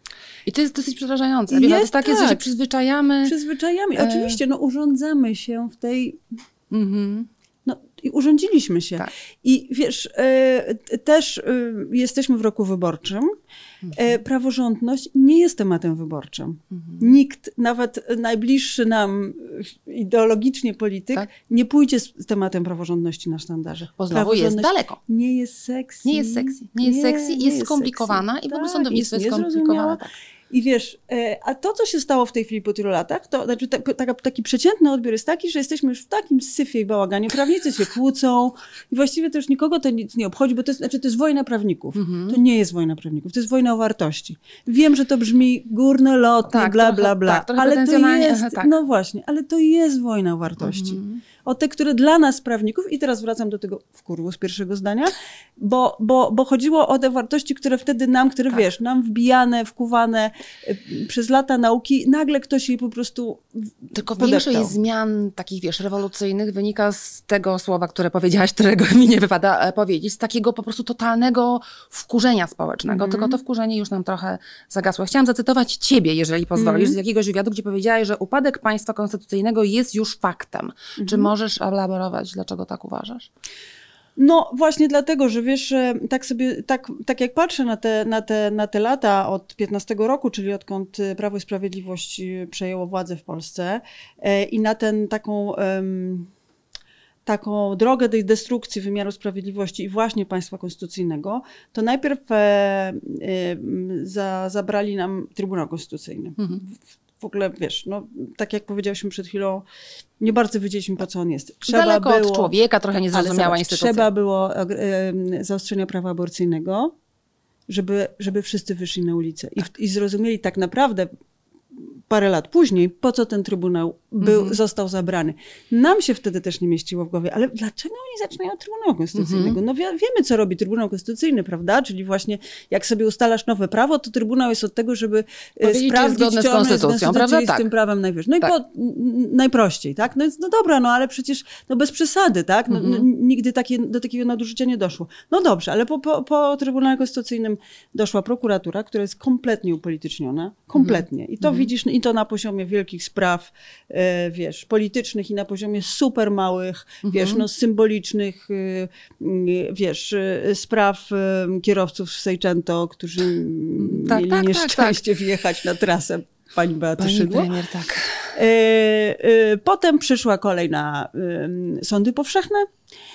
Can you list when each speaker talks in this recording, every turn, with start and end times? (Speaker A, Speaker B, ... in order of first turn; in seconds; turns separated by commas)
Speaker A: 0.5-3.4, Speaker B: 1.5-2.4, Speaker B: 3.2-6.2, Speaker A: 4.0-4.4, Speaker A: 6.7-7.3, Speaker B: 7.7-13.3, Speaker A: 13.8-14.1, Speaker B: 13.9-64.8, Speaker A: 16.7-17.1, Speaker A: 24.0-25.0, Speaker A: 26.1-30.1, Speaker A: 42.0-42.4, Speaker A: 46.5-48.7, Speaker A: 50.6-51.2, Speaker A: 63.9-83.3, Speaker B: 72.9-73.4, Speaker B: 76.5-77.0, Speaker B: 81.0-81.3, Speaker B: 84.2-96.3, Speaker B: 97.3-109.7, Speaker B: 110.2-112.5, Speaker A: 111.7-114.1, Speaker B: 113.1-116.9, Speaker B: 117.7-121.1, Speaker B: 121.8-167.5, Speaker A: 124.2-124.6, Speaker A: 129.2-129.6, Speaker A: 135.6-137.7, Speaker A: 142.7-143.1, Speaker A: 150.8-151.7, Speaker A: 157.1-157.4, Speaker A: 163.8-165.0, Speaker A: 167.0-168.4, Speaker B: 168.3-172.7